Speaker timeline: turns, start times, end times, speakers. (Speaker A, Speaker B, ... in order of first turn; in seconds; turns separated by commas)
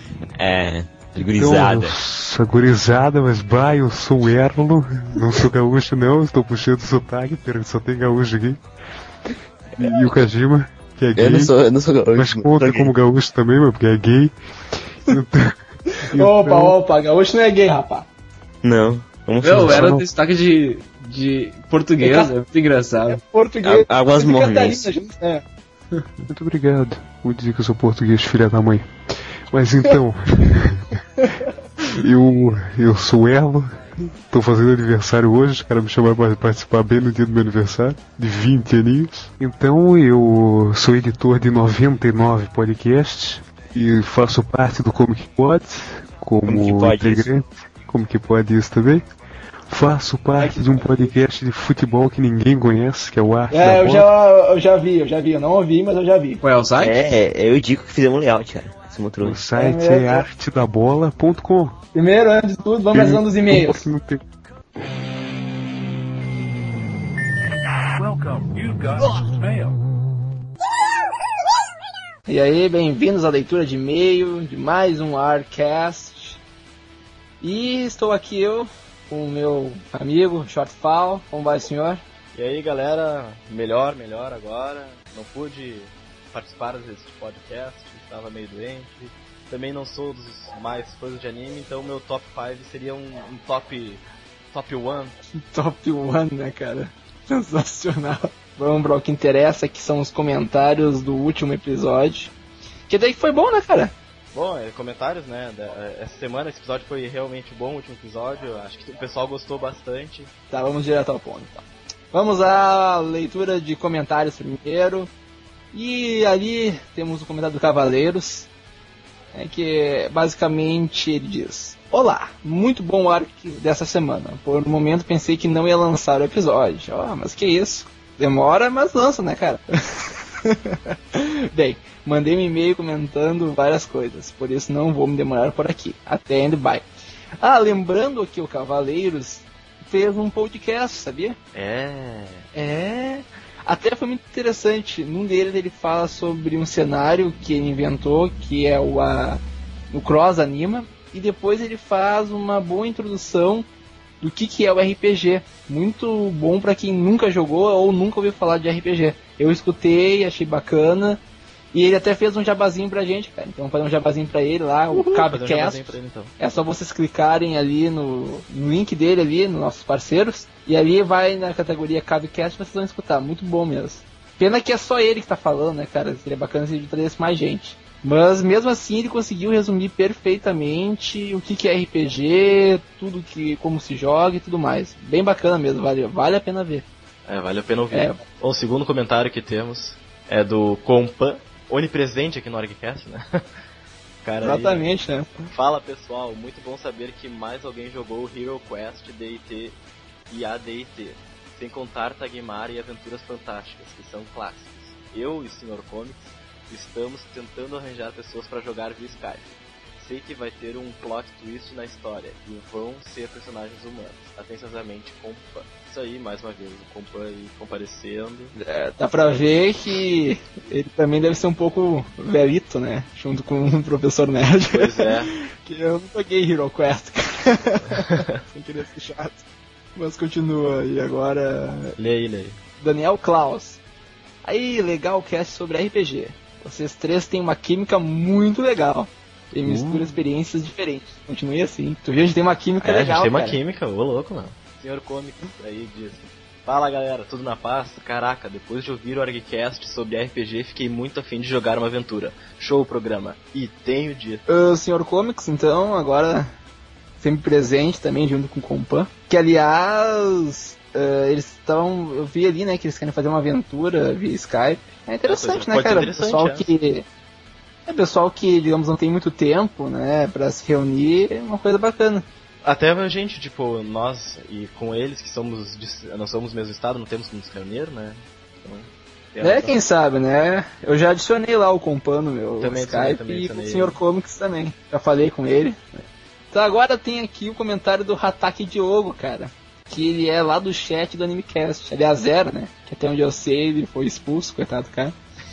Speaker A: 0.4-1.9, Speaker B: 1.2-8.6, Speaker A: 9.8-10.2, Speaker B: 9.8-11.5, Speaker A: 11.2-12.9, Speaker B: 12.1-14.3, Speaker B: 15.1-15.5, Speaker C: 16.0-18.1, Speaker B: 16.1-16.8, Speaker A: 18.6-19.9, Speaker D: 19.4-23.2, Speaker B: 19.6-20.1, Speaker C: 22.0-22.3, Speaker C: 23.0-25.4, Speaker A: 23.6-24.9, Speaker B: 26.2-28.9, Speaker B: 29.5-30.9, Speaker C: 31.2-31.5, Speaker B: 31.9-33.7, Speaker B: 34.3-49.0, Speaker A: 46.5-47.2, Speaker B: 49.7-54.1, Speaker C: 50.3-51.1, Speaker C: 53.5-56.4, Speaker D: 56.4-57.0, Speaker A: 56.8-59.4, Speaker B: 59.2-61.8, Speaker C: 59.5-60.3, Speaker C: 61.9-63.9, Speaker B: 62.9-64.2, Speaker C: 72.3-76.4, Speaker C: 77.4-82.0, Speaker E: 82.3-95.2, Speaker C: 95.5-102.3, Speaker C: 102.9-103.9, Speaker E: 104.3-110.3, Speaker C: 110.5-115.1, Speaker C: 115.7-118.5, Speaker C: 119.3-129.6, Speaker C: 130.4-136.8, Speaker C: 137.4-141.4, Speaker E: 141.5-142.4, Speaker C: 142.5-153.7, Speaker C: 154.2-161.2, Speaker C: 161.7-186.8, Speaker E: 164.9-166.3, Speaker E: 187.3-193.3, Speaker C: 187.9-188.2, Speaker E: 194.2-194.9, Speaker C: 194.4-195.3, Speaker E: 195.5-199.8, Speaker E: 200.3-218.5, Speaker C: 218.6-229.4, Speaker E: 224.7-225.3, Speaker E: 227.8-228.4, Speaker C: 229.9-231.9, Speaker E: 232.0-232.6, Speaker C: 232.8-233.8, Speaker C: 234.4-243.6, Speaker E: 239.6-240.2, Speaker E: 242.8-254.4, Speaker C: 254.5-256.5, Speaker C: 257.2-267.0, Speaker E: 265.2-266.7, Speaker C: 267.9-272.2, Speaker E: 272.6-279.8, Speaker C: 279.4-285.8, Speaker E: 282.6-284.0, Speaker C: 286.5-295.1